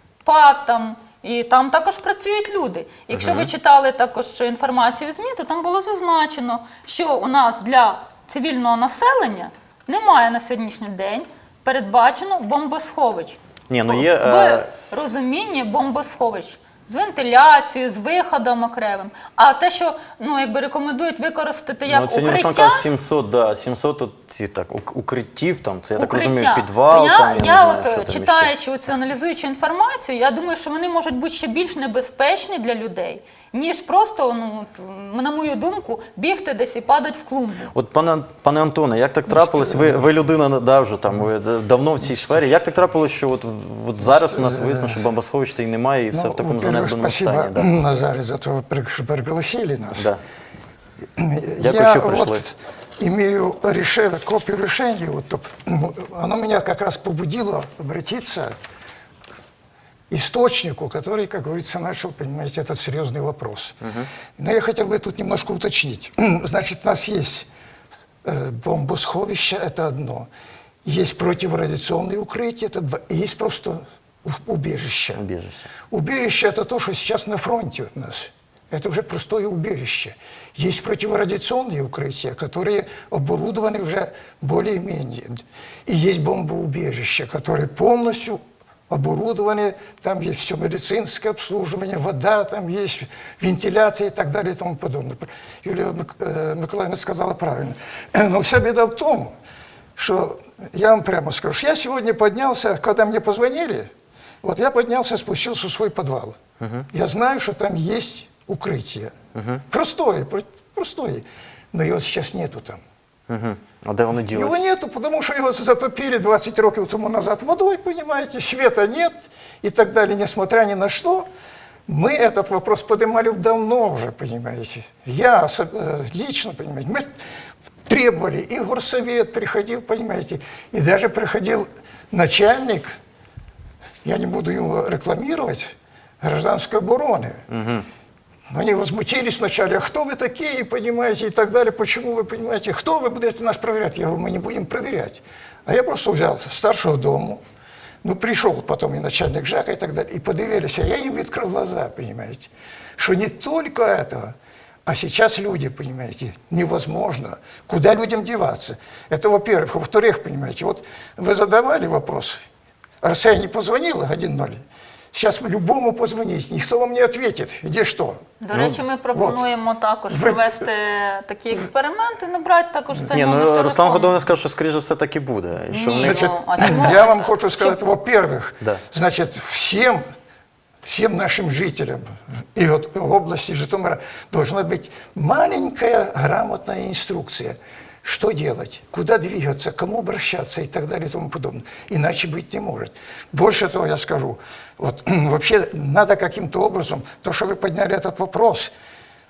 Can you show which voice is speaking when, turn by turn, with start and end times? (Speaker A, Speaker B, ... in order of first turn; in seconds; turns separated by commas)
Speaker A: 0.2-22.9, Speaker B: 3.1-3.5, Speaker B: 13.7-14.7, Speaker B: 21.9-28.5, Speaker A: 26.0-37.7, Speaker B: 37.7-47.7, Speaker C: 39.3-40.1, Speaker C: 44.0-45.1, Speaker C: 46.1-50.1, Speaker C: 51.1-58.6, Speaker B: 51.6-52.4, Speaker C: 60.1-63.8, Speaker B: 63.8-64.1, Speaker C: 64.4-67.5, Speaker C: 68.2-70.3, Speaker C: 70.8-75.2, Speaker B: 75.2-75.7, Speaker C: 75.9-99.3, Speaker C: 100.0-103.9, Speaker C: 104.4-106.4, Speaker B: 106.6-106.9, Speaker C: 106.9-109.1, Speaker B: 109.3-109.6, Speaker C: 109.7-112.8, Speaker B: 113.3-114.6, Speaker C: 114.3-121.3, Speaker C: 121.9-127.1, Speaker C: 127.8-133.0, Speaker C: 134.0-137.4, Speaker B: 137.5-137.8, Speaker C: 138.5-147.4, Speaker C: 148.0-162.4, Speaker C: 163.0-164.6, Speaker C: 165.1-169.4, Speaker A: 168.4-174.2, Speaker C: 170.1-170.4, Speaker B: 173.1-176.9, Speaker A: 175.7-177.9, Speaker C: 176.0-180.0, Speaker C: 180.8-198.7